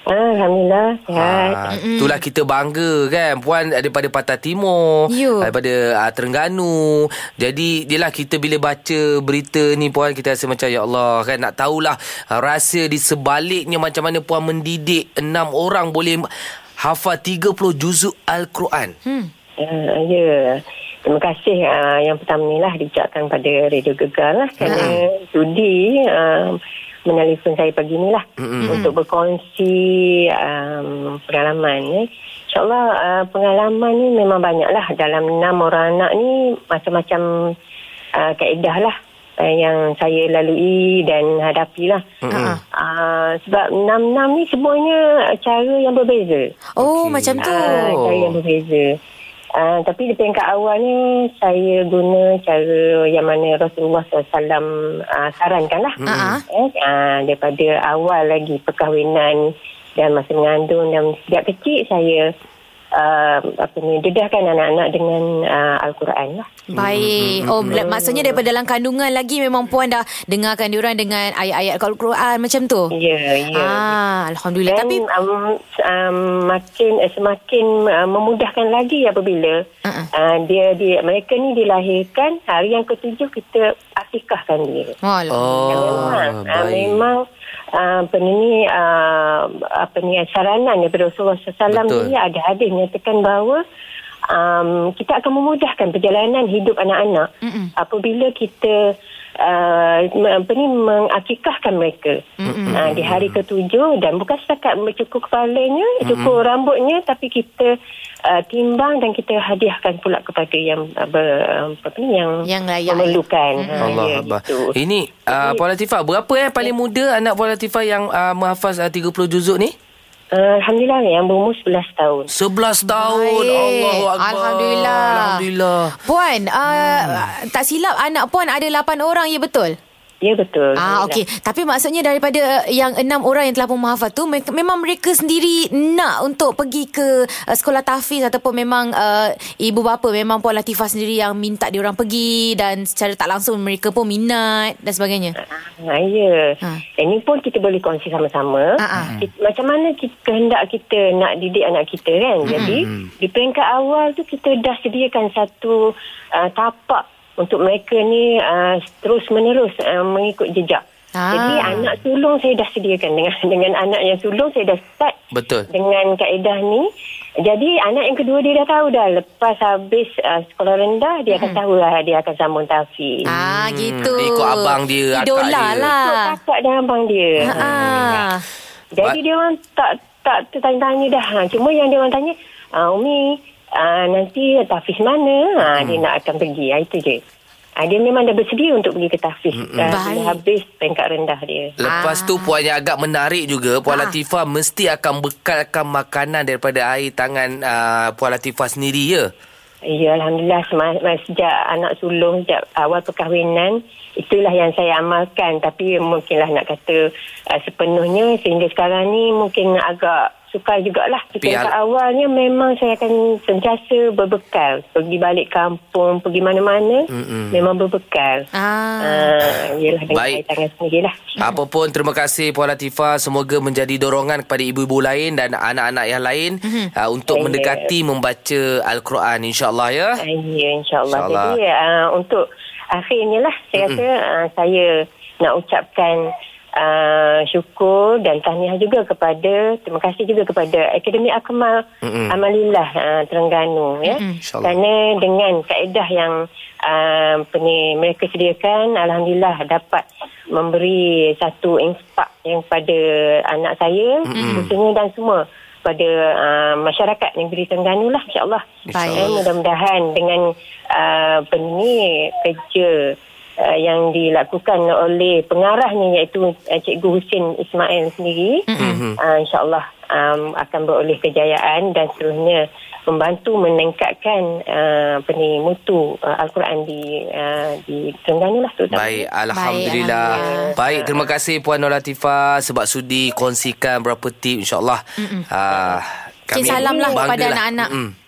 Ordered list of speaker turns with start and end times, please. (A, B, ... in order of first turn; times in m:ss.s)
0:00.1-0:01.6 A
0:01.2-0:16.3 B
0:01.7-0:02.2 C
0:05.1-0:05.5 C
0:16.8-0:18.9 B
0:19.6-0:37.2 A
0:24.6-0:24.9 C
0:24.6-0:25.0 B
0:28.4-0:28.8 B
0:38.2-0:42.0 A
0:42.2-0:42.6 B
0:42.3-0:42.6 C
0:42.7-0:46.5 A
0:46.8-0:47.8 C
0:46.8-0:48.4 B
0:47.4-0:48.9 A
0:49.6-0:56.0 A
0:56.0-0:56.4 B
0:56.0-0:56.4 C
0:56.5-0:59.4 A
1:00.0-1:02.2 A
1:02.9-1:06.4 A
1:06.7-1:12.9 C
1:06.7-1:07.8 B
1:07.7-1:08.4 A
1:12.9-1:13.9 A
1:13.5-1:15.0 C
1:14.7-1:19.6 A
1:20.1-1:24.9 A
1:25.0-1:26.2 C
1:25.3-1:27.0 B
1:25.6-1:27.2 A
1:27.7-1:33.6 A
1:31.7-1:32.1 B
1:34.3-1:38.7 A
1:37.4-1:37.7 C
1:39.4-1:42.2 A
1:42.4-1:42.8 C
1:42.5-1:43.4 B
1:42.7-1:47.7 A
1:46.0-1:46.4 B
1:48.3-1:54.7 A
1:52.4-1:54.0 C
1:53.8-1:59.7 B
1:55.3-1:55.6 A
2:00.3-2:02.3 A
2:02.3-2:06.0 B
2:02.8-2:05.4 C
2:06.0-2:09.8 C
2:10.2-2:11.2 A
2:10.8-2:25.3 C
2:25.5-2:45.1 A
2:28.8-2:29.1 C
2:32.5-2:33.1 B
2:32.5-2:32.8 C
2:41.2-2:41.9 C
2:45.3-2:45.7 B
2:45.7-2:46.9 A
2:47.4-2:53.2 A
2:51.3-2:51.6 C
2:53.3-2:56.4 C
2:53.3-2:55.9 B
2:56.0-2:57.7 A
2:57.4-2:58.2 B
2:57.4-2:58.4 C
2:58.9-3:07.2 A
3:05.7-3:06.0 B
3:07.8-3:11.7 A
3:09.5-3:09.9 B
3:09.9-3:10.4 C
3:11.8-3:19.3 B
3:11.8-3:12.5 C
3:13.9-3:14.1 C
3:19.9-3:38.4 A
3:31.4-3:31.7 B
3:37.1-3:37.7 B
3:38.5-3:39.3 C
3:39.0-3:41.3 A
3:40.1-3:40.4 B
3:41.4-3:50.2 B
3:46.6-3:46.9 C
3:47.3-3:47.8 A
3:50.2-3:52.4 A
3:51.1-3:51.6 B
3:52.9-4:18.6 A
3:53.8-3:54.0 B
4:02.0-4:02.4 B
4:04.0-4:04.4 C
4:04.4-4:04.8 B
4:14.3-4:14.7 B
4:14.3-4:14.7 C
4:18.9-4:19.4 B
4:18.9-4:19.4 C
4:19.1-4:28.6 A
4:28.7-4:29.0 C
4:28.8-4:29.2 B
4:29.2-4:39.3 A
4:38.9-4:48.1 B
4:39.5-4:40.8 C
4:40.3-4:41.2 A
4:45.2-4:45.5 C
4:46.5-4:47.9 C
4:46.6-4:47.2 A